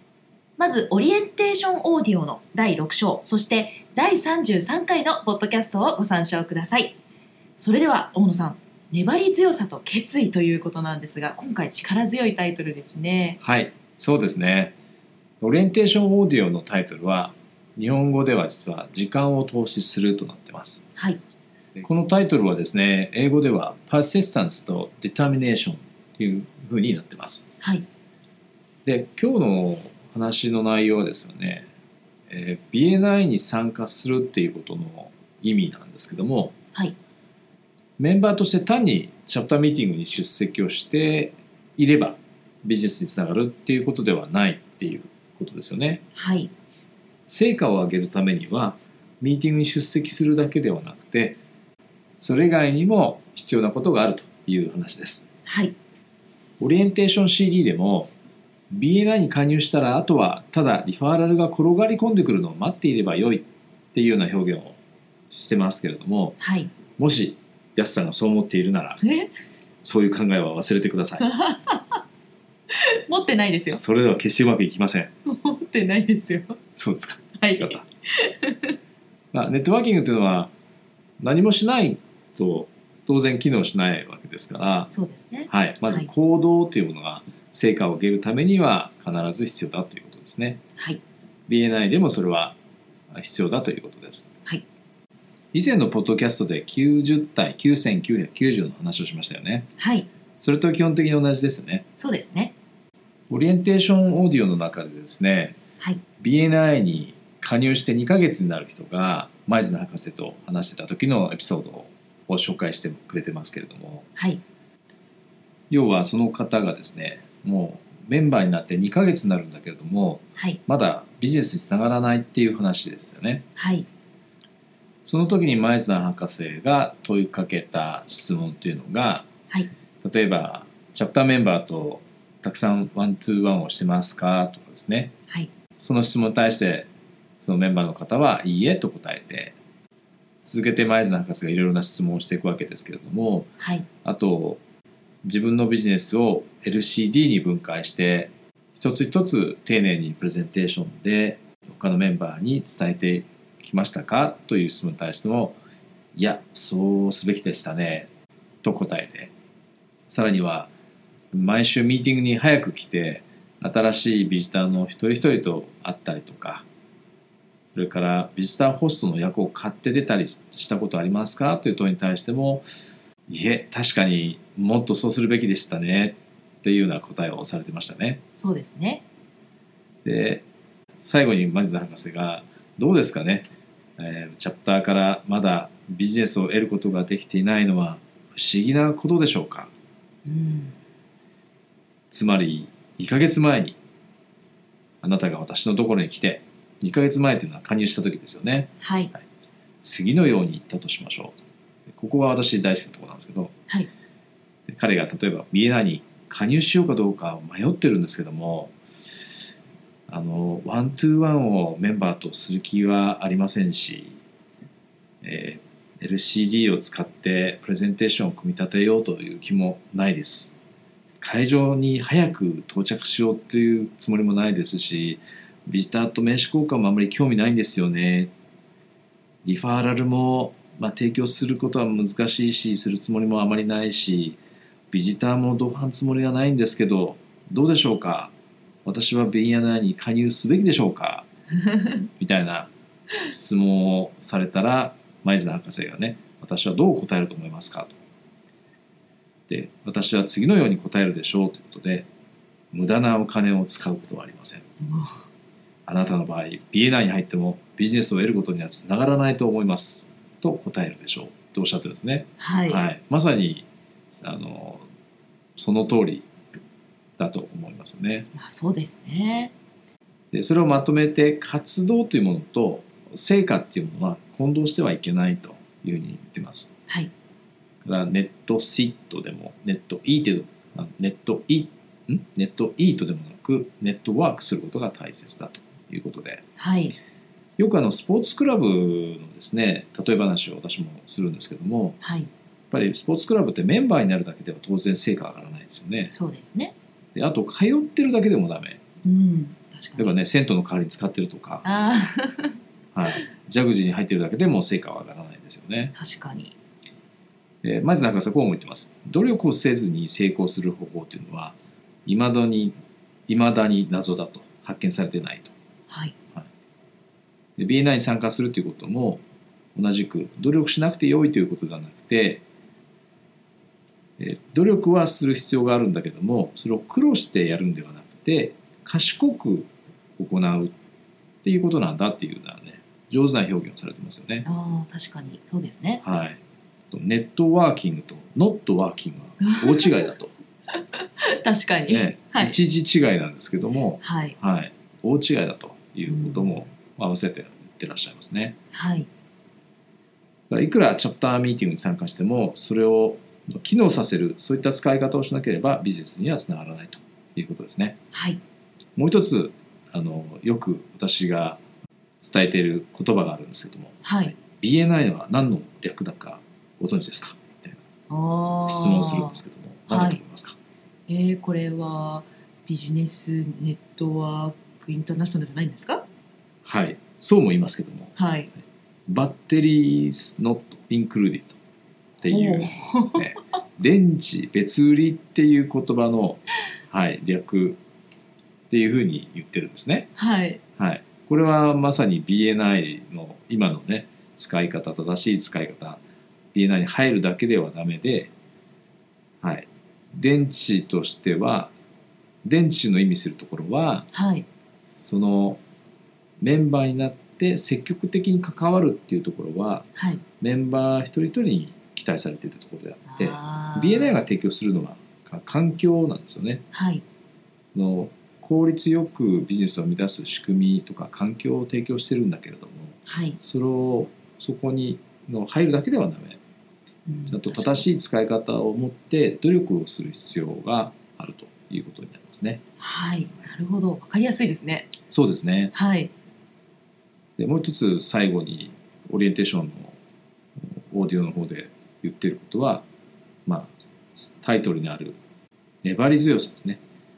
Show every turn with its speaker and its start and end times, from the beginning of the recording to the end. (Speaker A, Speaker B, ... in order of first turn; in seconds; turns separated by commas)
Speaker A: 0.6-7.0, Speaker A: 7.6-13.4, Speaker B: 13.4-14.7, Speaker B: 15.4-20.8, Speaker B: 21.8-27.5, Speaker A: 27.6-27.9, Speaker B: 28.8-31.7, Speaker B: 32.3-36.5, Speaker B: 38.0-46.0, Speaker A: 46.1-46.5, Speaker B: 47.3-51.4, Speaker B: 52.2-55.3, Speaker A: 55.5-55.7, Speaker B: 56.6-58.1, Speaker B: 58.7-64.8, Speaker B: 65.3-66.4, Speaker A: 66.4-66.7, Speaker B: 67.0-69.0, Speaker A: 69.0-69.3, Speaker B: 69.8-71.2, Speaker A: 71.2-72.0, Speaker A: 73.1-73.8, Speaker B: 73.7-75.1, Speaker A: 75.2-76.6, Speaker B: 76.8-77.8, Speaker A: 77.4-78.7, Speaker B: 79.3-80.5, Speaker B: 81.2-84.9, Speaker A: 84.9-86.1, Speaker B: 85.5-90.6, Speaker B: 91.5-92.5, Speaker B: 93.1-94.3, Speaker B: 95.5-99.7, Speaker A: 99.8-100.1, Speaker B: 100.4-101.8, Speaker A: 102.0-102.5, Speaker B: 103.3-105.6, Speaker B: 106.2-114.1, Speaker B: 115.7-123.4, Speaker A: 123.5-123.9, Speaker B: 125.0-129.3, Speaker B: 130.0-135.1, Speaker B: 135.8-136.9, Speaker B: 137.4-139.5, Speaker B: 140.4-143.5, Speaker A: 143.6-143.9, Speaker B: 144.0-144.6, Speaker B: 145.2-155.6, Speaker B: 156.1-158.1, Speaker B: 158.6-159.3, Speaker B: 160.1-160.7, Speaker B: 161.3-166.7, Speaker B: 167.7-172.6, Speaker B: 173.3-178.2, Speaker A: 178.4-179.0, Speaker B: 180.0-180.4, Speaker B: 181.0-189.7, Speaker A: 190.2-190.7, Speaker B: 192.1-193.8, Speaker B: 195.0-199.2, Speaker A: 198.8-199.1, Speaker B: 199.8-203.5, Speaker B: 204.7-208.8, Speaker B: 210.1-214.2, Speaker B: 215.2-220.5, Speaker B: 221.2-228.3, Speaker B: 229.4-234.4, Speaker B: 234.9-238.3, Speaker B: 238.8-241.3, Speaker B: 242.2-242.7, Speaker B: 243.2-247.9, Speaker B: 249.5-252.1, Speaker B: 252.7-254.6, Speaker A: 254.8-255.2, Speaker B: 255.8-264.9, Speaker A: 262.4-262.8, Speaker B: 265.6-266.3, Speaker B: 267.2-268.3, Speaker A: 268.3-269.5, Speaker B: 270.3-276.7, Speaker B: 277.8-286.4, Speaker A: 286.6-286.9, Speaker B: 287.6-292.0, Speaker A: 292.0-292.3, Speaker B: 292.7-296.1, Speaker A: 296.1-296.7, Speaker B: 297.1-298.8, Speaker A: 299.0-300.1, Speaker B: 300.0-301.6, Speaker A: 301.6-302.5, Speaker B: 302.9-305.9, Speaker A: 305.9-306.5, Speaker B: 307.6-312.7, Speaker B: 313.3-315.5, Speaker A: 315.9-316.1, Speaker B: 317.6-319.2, Speaker B: 319.7-322.4, Speaker B: 324.2-330.7, Speaker B: 331.4-334.4, Speaker A: 334.4-336.0, Speaker B: 336.0-336.4, Speaker B: 336.9-340.3, Speaker A: 339.4-340.1, Speaker A: 341.0-342.6, Speaker B: 341.9-348.6, Speaker A: 344.0-344.4, Speaker A: 346.1-346.6, Speaker A: 348.7-349.1, Speaker B: 350.5-358.0, Speaker A: 358.1-358.4, Speaker B: 358.9-361.6, Speaker B: 362.2-367.8, Speaker A: 364.0-364.3, Speaker A: 368.1-370.2, Speaker B: 368.7-370.6, Speaker A: 371.1-376.0, Speaker B: 376.6-378.1, Speaker A: 378.2-378.5, Speaker B: 379.1-381.6, Speaker B: 382.2-387.8, Speaker A: 382.2-383.3, Speaker B: 388.7-390.1, Speaker A: 390.2-390.6, Speaker B: 390.8-396.0, Speaker B: 396.5-398.3, Speaker B: 399.4-401.7, Speaker B: 402.4-404.1, Speaker A: 404.1-404.4, Speaker B: 404.9-405.6, Speaker B: 406.4-409.9, Speaker A: 409.9-410.2, Speaker B: 410.4-416.6, Speaker A: 413.1-414.2, Speaker A: 416.7-417.0, Speaker B: 417.7-426.4, Speaker A: 423.1-423.4, Speaker A: 427.1-427.9, Speaker B: 427.3-432.6, Speaker A: 432.8-434.9, Speaker B: 435.1-435.7, Speaker A: 435.7-436.1, Speaker B: 437.4-439.9, Speaker B: 440.6-442.8, Speaker B: 443.4-445.2, Speaker B: 445.8-446.8